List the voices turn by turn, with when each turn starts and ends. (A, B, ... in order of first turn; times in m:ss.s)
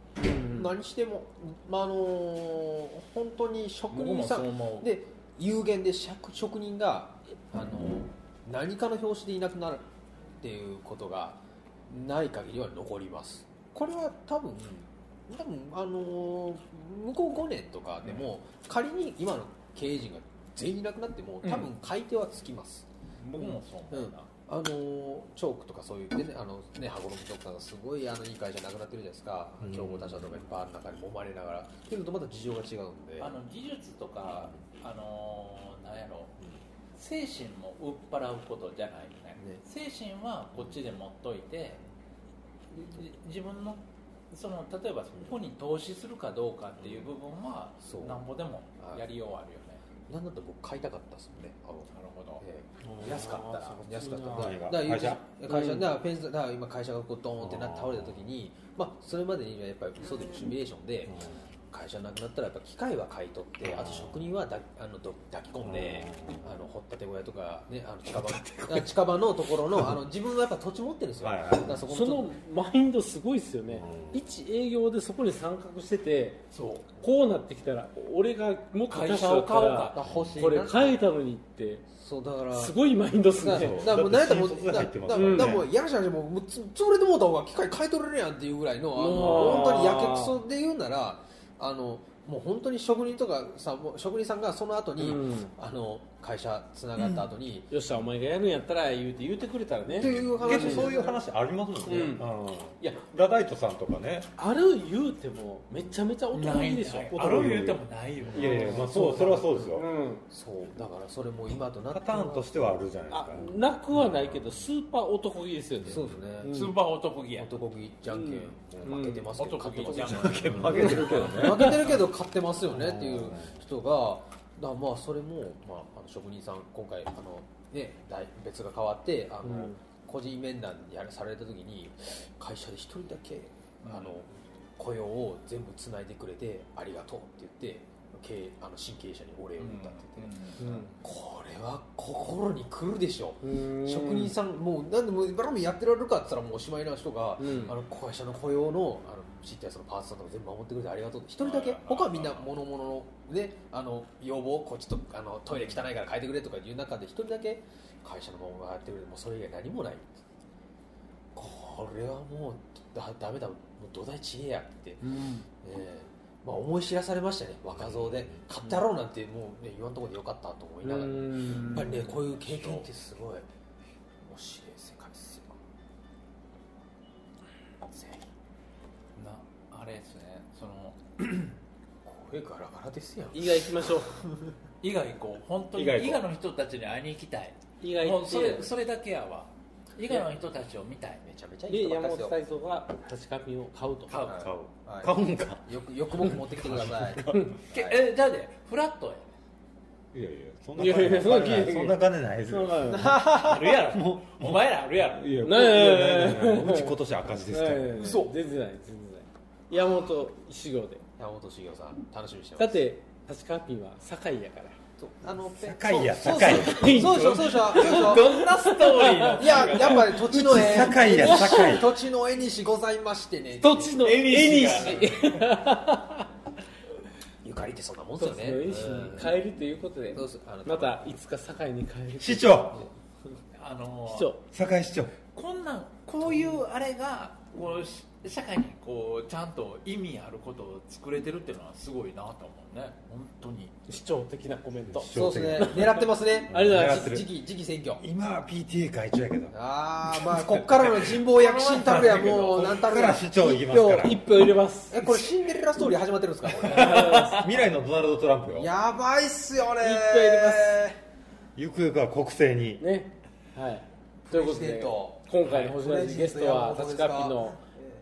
0:00.2-0:00.7 A
0:00.3-0:09.8 B
0:03.9-0:04.9 C
0:10.4-0:33.4 B
0:21.4-0:21.7 A
0:23.2-0:24.3 C
0:29.6-0:30.5 D
0:33.2-0:36.4 C
0:37.0-0:41.8 C
0:42.7-0:49.8 C
0:46.8-0:47.1 B
0:47.8-0:48.3 B
0:48.8-0:49.0 B
0:50.1-1:12.3 B
0:51.9-0:52.4 C
0:52.8-0:54.6 A
0:54.2-0:55.2 D
0:55.5-0:55.8 A
0:57.4-0:58.2 D
1:01.1-1:01.4 D
1:03.6-1:04.3 D
1:05.6-1:06.5 D
1:08.1-1:08.9 C
1:11.2-1:11.9 D
1:11.9-1:16.4 A
1:13.7-1:14.4 D
1:16.5-1:16.9 C
1:17.0-1:21.8 A
1:18.9-1:20.6 C
1:20.0-1:21.0 B
1:20.1-1:20.4 D
1:21.9-1:22.8 B
1:22.5-1:24.1 A
1:23.4-1:37.7 B
1:23.4-1:25.7 D
1:25.1-1:25.7 A
1:29.0-1:30.4 A
1:35.0-1:35.5 A
1:37.0-1:37.3 C
1:37.7-1:41.0 A
1:39.9-1:41.2 B
1:39.9-1:44.3 D
1:41.8-1:42.3 A
1:44.4-1:47.8 A
1:46.3-1:48.9 C
1:47.2-1:49.9 D
1:48.3-1:50.2 A
1:50.3-1:52.8 B
1:51.9-1:54.5 D
1:53.1-1:56.7 A
1:55.9-1:56.7 B
1:56.5-1:57.5 C
1:57.4-2:20.4 B
1:58.1-1:59.3 A
1:59.4-2:01.8 C
2:00.1-2:01.9 D
2:00.8-2:01.6 A
2:02.6-2:03.6 D
2:09.4-2:09.8 A
2:13.8-2:14.2 C
2:19.6-2:21.0 C
2:20.6-2:20.9 A
2:21.0-2:40.2 B
2:23.4-2:24.4 A
2:27.4-2:27.7 A
2:31.4-2:32.5 C
2:35.5-2:35.8 C
2:41.4-2:53.5 B
2:45.0-2:45.4 A
2:47.7-2:48.4 D
2:50.8-2:52.2 A
2:54.2-2:55.6 B
2:57.9-2:58.2 B
2:59.2-3:01.6 C
3:02.0-3:03.9 B
3:03.3-3:04.2 A
3:04.8-3:11.2 C
3:05.8-3:06.3 D
3:07.8-3:08.7 A
3:11.2-3:12.4 B
3:11.7-3:14.1 A
3:14.1-3:14.7 C
3:14.1-3:18.0 B
3:15.0-3:15.7 D
3:16.3-3:17.5 D
3:17.7-3:19.3 C
3:20.1-3:28.2 D
3:20.8-3:23.2 A
3:23.0-3:23.6 B
3:23.2-3:25.4 C
3:25.4-3:27.0 A
3:27.5-3:31.0 A
3:28.0-3:28.3 B
3:31.2-3:32.8 B
3:32.6-3:34.8 A
3:35.0-3:38.4 B
3:35.5-3:37.3 D
3:36.4-3:40.0 A
3:37.4-3:40.1 C
3:39.4-3:44.2 B
3:40.1-3:42.0 D
3:40.9-3:41.8 A
3:43.6-3:46.3 A
3:44.0-3:45.6 C
3:47.4-3:49.4 B
3:48.2-3:52.9 A
3:50.1-3:51.0 B
3:52.2-3:52.8 D
3:53.6-3:54.4 C
3:54.1-3:54.4 A
3:54.5-3:55.2 D
3:55.3-4:03.7 C
4:03.9-4:07.2 A
4:04.9-4:07.3 D
4:05.1-4:08.0 B
4:08.0-4:09.6 D
4:09.5-4:13.3 B
4:10.1-4:11.0 D
4:11.2-4:12.7 C
4:12.5-4:14.6 D
4:13.3-4:15.1 A
4:14.9-4:17.3 B
4:16.7-4:17.4 A
4:17.0-4:17.3 C
4:17.0-4:18.7 D
4:18.5-4:21.0 B
4:19.8-4:20.8 A
4:21.6-4:22.8 D
4:22.8-4:27.6 A
4:24.2-4:27.9 B